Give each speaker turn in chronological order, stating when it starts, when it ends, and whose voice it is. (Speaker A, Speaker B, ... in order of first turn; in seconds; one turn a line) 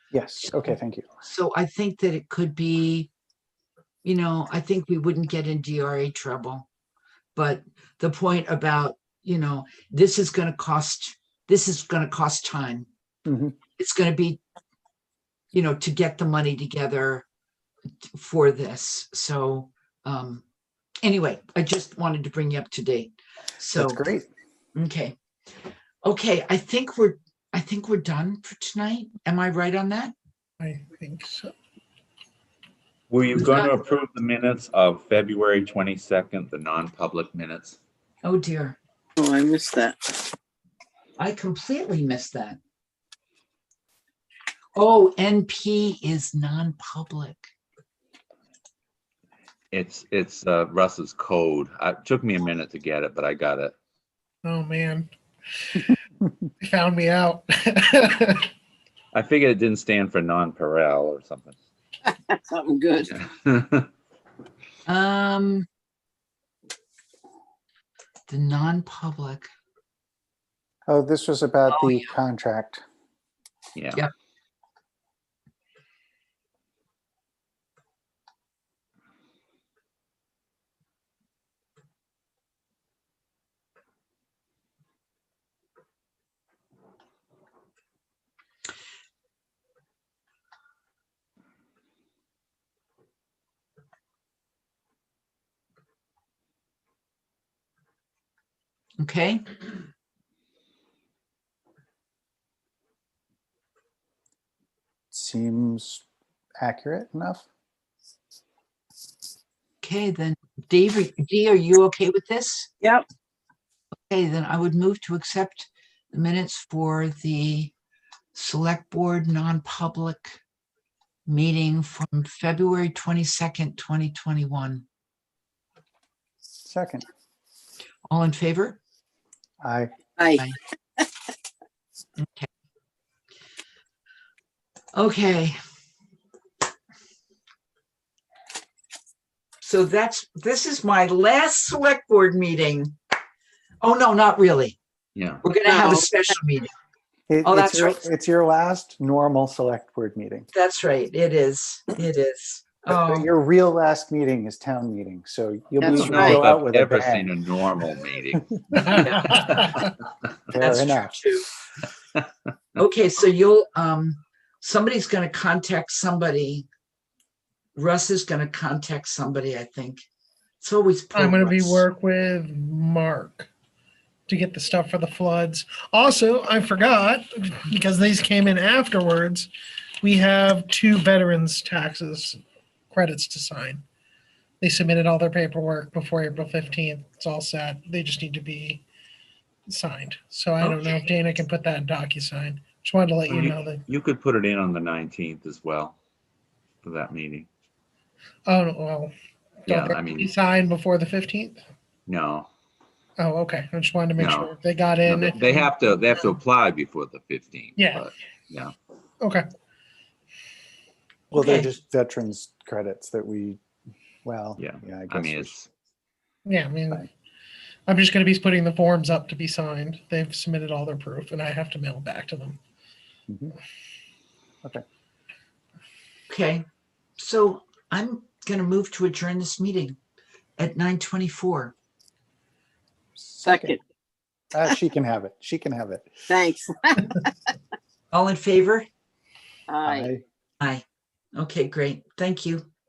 Speaker A: 0.1-1.1
Speaker B: 1.2-3.1
Speaker B: 4.0-6.7
Speaker B: 7.3-12.9
Speaker A: 13.3-13.5
Speaker B: 13.8-14.4
Speaker B: 15.5-17.3
Speaker B: 18.1-20.4
Speaker B: 21.0-24.1
Speaker A: 23.7-24.3
Speaker B: 24.8-25.1
Speaker B: 26.0-30.1
Speaker C: 30.6-31.5
Speaker D: 33.1-37.8
Speaker B: 33.4-33.7
Speaker B: 38.2-38.8
Speaker E: 39.2-40.3
Speaker B: 41.2-42.6
Speaker B: 44.8-47.5
Speaker D: 49.7-53.7
Speaker C: 54.4-56.0
Speaker C: 56.6-58.5
Speaker D: 59.1-61.6
Speaker E: 62.0-63.2
Speaker D: 63.1-63.9
Speaker B: 64.9-65.7
Speaker B: 68.3-69.5
Speaker A: 70.9-72.8
Speaker D: 73.8-74.0
Speaker B: 99.0-99.4
Speaker A: 105.1-106.0
Speaker A: 106.6-107.5
Speaker B: 109.8-112.7
Speaker B: 114.1-117.7
Speaker B: 118.3-120.4
Speaker B: 121.3-124.8
Speaker A: 126.6-127.0
Speaker B: 128.1-128.8
Speaker A: 129.6-129.9
Speaker E: 130.2-130.4
Speaker B: 132.2-132.5
Speaker B: 134.9-135.6
Speaker B: 139.6-143.0
Speaker B: 143.8-144.8
Speaker D: 145.2-145.4
Speaker B: 145.4-146.7
Speaker E: 145.7-146.1
Speaker A: 147.3-150.5
Speaker B: 147.4-148.0
Speaker B: 150.5-153.3
Speaker A: 152.9-157.3
Speaker E: 155.8-156.4
Speaker D: 155.9-159.9
Speaker B: 158.8-159.8
Speaker C: 158.9-159.8
Speaker A: 160.5-161.2
Speaker B: 160.6-161.5
Speaker B: 162.8-166.7
Speaker B: 167.8-170.1
Speaker B: 170.6-171.8
Speaker C: 171.2-173.5
Speaker C: 174.3-179.5
Speaker C: 180.0-183.8
Speaker C: 184.6-188.8
Speaker C: 189.7-193.8
Speaker B: 190.6-191.0
Speaker D: 193.3-196.0
Speaker D: 196.8-197.5
Speaker C: 198.5-199.1
Speaker C: 199.7-201.6
Speaker D: 199.7-200.3
Speaker D: 202.1-202.5
Speaker C: 203.2-205.7
Speaker D: 204.2-208.7
Speaker C: 207.8-208.1
Speaker A: 211.3-213.6
Speaker B: 211.4-211.7
Speaker A: 214.2-215.5
Speaker D: 214.6-215.7
Speaker C: 216.5-217.1
Speaker C: 217.9-222.6
Speaker B: 226.3-226.6
Speaker B: 227.2-230.0
Speaker B: 230.6-231.7
Speaker A: 233.2-233.8
Speaker E: 233.4-233.8
Speaker A: 234.5-236.1
Speaker E: 236.3-237.3
Speaker B: 238.1-238.9
Speaker E: 239.7-240.1
Speaker A: 239.8-240.2
Speaker B: 241.3-242.7